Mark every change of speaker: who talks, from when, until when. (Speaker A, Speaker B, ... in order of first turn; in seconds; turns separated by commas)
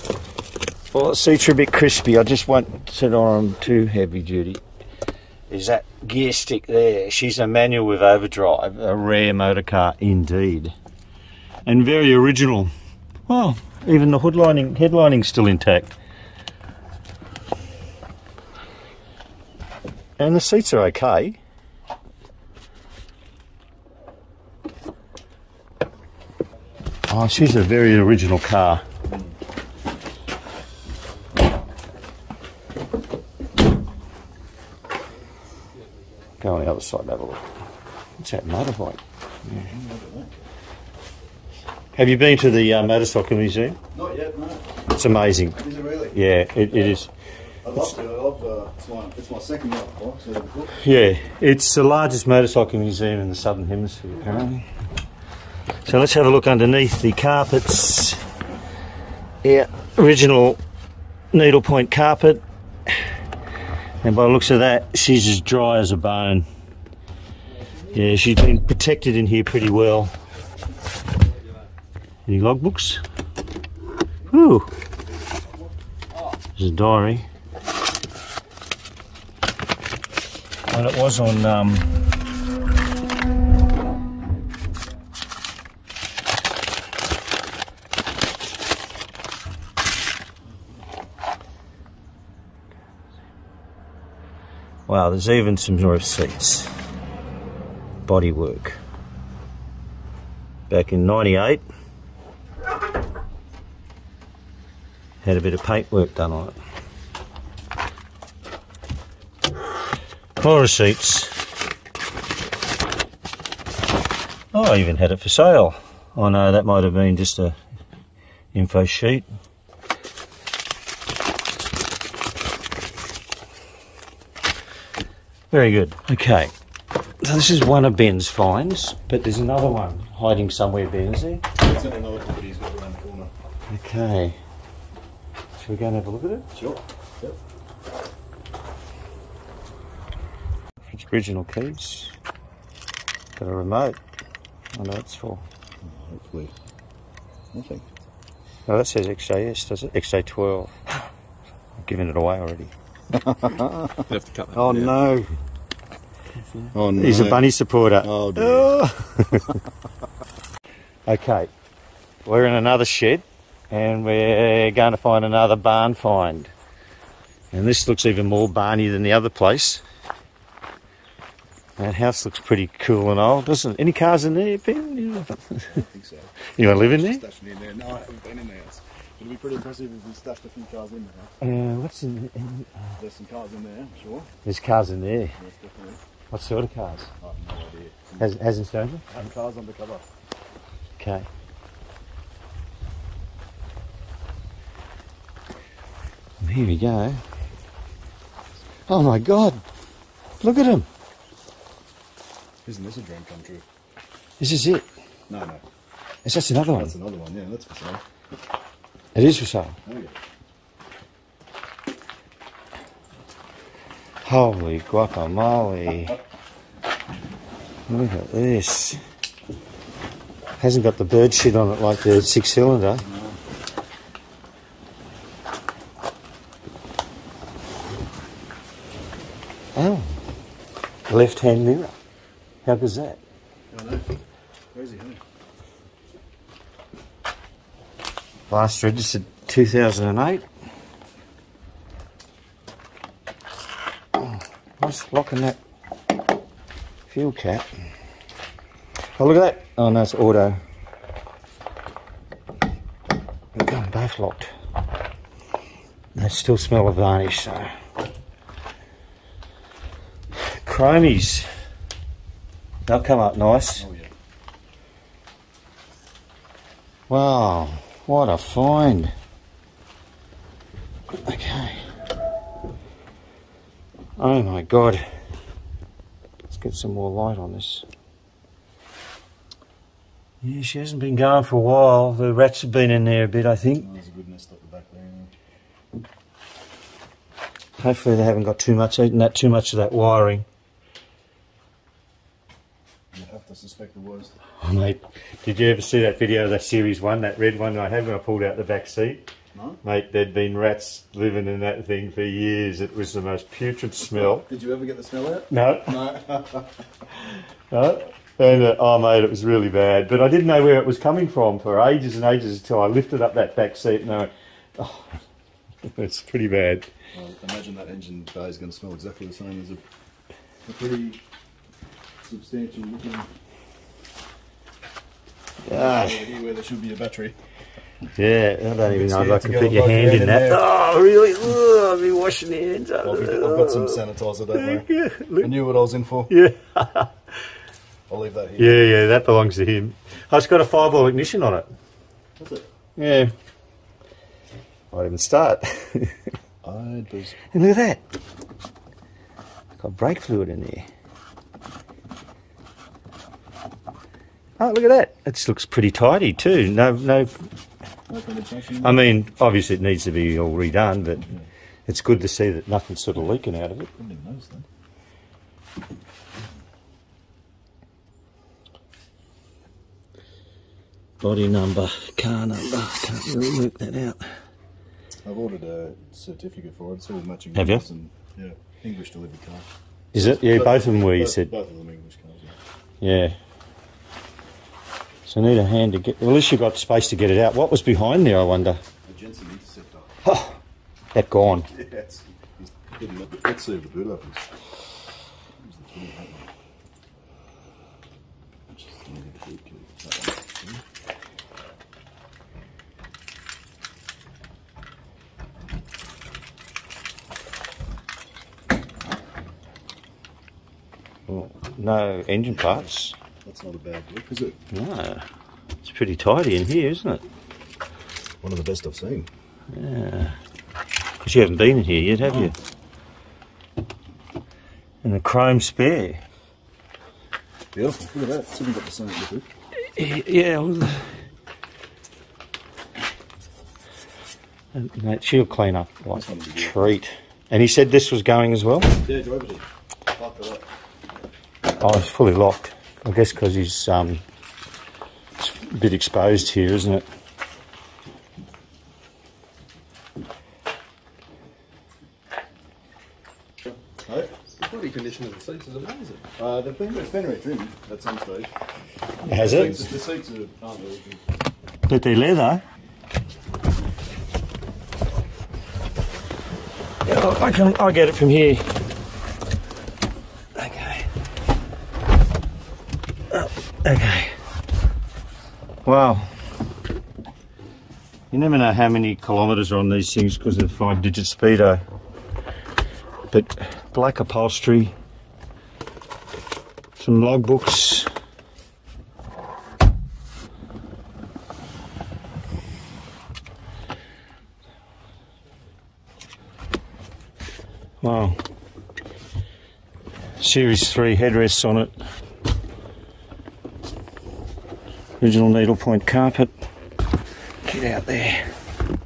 Speaker A: 0.9-4.6, Speaker A: 5.5-10.7, Speaker A: 11.7-12.7, Speaker A: 13.3-15.9, Speaker A: 20.2-21.4, Speaker A: 27.1-28.8, Speaker A: 36.4-37.4, Speaker A: 38.2-39.7, Speaker B: 39.6-40.4, Speaker A: 42.0-43.8, Speaker B: 43.9-44.7, Speaker A: 44.9-45.6, Speaker B: 45.6-46.2, Speaker A: 46.1-47.1, Speaker B: 46.7-47.0, Speaker B: 47.6-50.8, Speaker A: 50.8-54.7, Speaker A: 55.9-58.2, Speaker A: 59.4-60.6, Speaker A: 61.3-62.4, Speaker A: 64.0-66.5, Speaker A: 67.9-70.1, Speaker A: 72.3-73.0, Speaker A: 74.3-74.7, Speaker A: 76.6-77.3, Speaker A: 80.7-82.1, Speaker A: 94.9-96.7, Speaker A: 98.1-98.8, Speaker A: 100.7-101.6, Speaker A: 105.2-106.6, Speaker A: 110.4-111.4, Speaker A: 114.5-117.5, Speaker A: 118.5-119.3, Speaker A: 125.5-126.5, Speaker A: 127.2-131.4, Speaker B: 131.6-133.3, Speaker A: 133.7-134.4, Speaker A: 135.6-136.5, Speaker B: 136.6-137.4, Speaker A: 140.9-142.2, Speaker A: 143.4-144.0, Speaker A: 144.8-145.4, Speaker B: 145.8-146.5, Speaker B: 147.5-147.8, Speaker A: 148.7-150.7, Speaker A: 151.8-152.7, Speaker B: 153.1-155.3, Speaker C: 154.1-154.9, Speaker B: 156.7-157.4, Speaker A: 156.9-159.6, Speaker B: 158.0-158.8, Speaker A: 161.1-161.5, Speaker A: 162.2-166.5, Speaker A: 167.5-169.8, Speaker A: 171.8-175.8, Speaker B: 175.7-181.3, Speaker A: 176.5-177.2, Speaker A: 181.4-182.9, Speaker B: 183.0-184.3, Speaker A: 184.4-185.4, Speaker B: 185.4-186.0, Speaker A: 186.3-187.1, Speaker B: 187.2-188.3, Speaker A: 188.2-189.1, Speaker B: 189.1-190.1, Speaker A: 191.0-191.3, Speaker A: 196.4-197.2, Speaker A: 198.9-199.6, Speaker A: 200.4-200.9, Speaker B: 202.7-203.7, Speaker A: 204.4-204.9, Speaker B: 205.3-205.6, Speaker A: 206.2-206.9, Speaker B: 206.7-208.0, Speaker A: 209.2-209.8, Speaker B: 209.8-210.1, Speaker A: 214.2-216.2, Speaker A: 217.9-219.0, Speaker A: 220.6-223.1, Speaker B: 223.0-223.4, Speaker A: 229.8-230.2, Speaker A: 231.1-231.9, Speaker A: 232.7-233.2, Speaker B: 233.7-234.1, Speaker B: 234.7-235.2, Speaker A: 238.5-240.4, Speaker A: 244.2-245.6, Speaker A: 247.1-247.7, Speaker A: 249.2-250.6, Speaker A: 253.5-254.5, Speaker A: 256.1-257.7, Speaker A: 260.4-261.5, Speaker A: 262.9-263.9, Speaker B: 263.8-264.1, Speaker A: 267.1-269.1, Speaker A: 271.2-271.9, Speaker A: 274.2-275.0, Speaker A: 276.5-277.9, Speaker A: 280.4-283.9, Speaker B: 283.8-285.3, Speaker A: 287.8-290.4, Speaker B: 293.1-294.4, Speaker A: 294.6-299.2, Speaker B: 299.5-299.8, Speaker A: 299.8-304.4, Speaker B: 304.0-306.7, Speaker A: 305.5-306.0, Speaker A: 307.7-315.2, Speaker A: 315.9-316.9, Speaker B: 317.1-319.8, Speaker B: 320.6-321.2, Speaker B: 322.2-323.3, Speaker A: 325.6-326.3, Speaker B: 325.7-327.4, Speaker A: 328.2-334.0, Speaker B: 328.9-330.6, Speaker B: 333.0-334.9, Speaker A: 334.6-335.5, Speaker B: 335.4-336.3, Speaker A: 336.3-337.1, Speaker B: 338.1-339.0, Speaker A: 338.6-341.7, Speaker B: 342.4-342.7, Speaker A: 343.0-343.3, Speaker A: 344.9-346.1, Speaker B: 346.6-347.4, Speaker A: 347.5-348.0, Speaker A: 349.8-350.9, Speaker A: 354.6-357.3, Speaker B: 358.1-359.1, Speaker A: 358.8-361.3, Speaker A: 361.9-363.9, Speaker B: 364.0-364.7, Speaker A: 371.2-374.3, Speaker B: 375.2-382.6, Speaker A: 377.6-377.8, Speaker A: 380.1-381.5, Speaker A: 383.0-383.4, Speaker A: 385.3-388.8, Speaker B: 389.0-390.1, Speaker A: 390.2-390.6, Speaker A: 391.1-391.7, Speaker B: 391.7-394.5, Speaker B: 395.6-396.5, Speaker B: 398.7-400.8, Speaker A: 411.3-413.1, Speaker B: 412.5-412.9, Speaker B: 413.4-414.6, Speaker A: 414.7-415.2, Speaker A: 415.8-417.2, Speaker B: 418.4-419.3, Speaker A: 419.7-420.4, Speaker A: 421.2-422.5, Speaker A: 425.0-426.2, Speaker B: 427.7-429.5, Speaker A: 429.9-431.1, Speaker A: 434.7-439.0, Speaker B: 436.1-437.0, Speaker B: 439.0-440.7, Speaker A: 441.8-444.2, Speaker A: 445.4-447.1, Speaker B: 454.1-454.3, Speaker C: 454.6-456.3, Speaker B: 456.4-458.5, Speaker A: 459.2-459.9, Speaker B: 459.3-461.2, Speaker A: 461.9-462.6, Speaker A: 467.1-468.7, Speaker A: 470.6-471.1, Speaker A: 473.3-474.3, Speaker A: 475.9-476.3, Speaker A: 478.3-481.8, Speaker A: 483.3-484.9, Speaker A: 487.0-488.1, Speaker A: 498.0-498.4, Speaker A: 500.4-501.9, Speaker A: 505.2-506.5, Speaker A: 507.6-508.5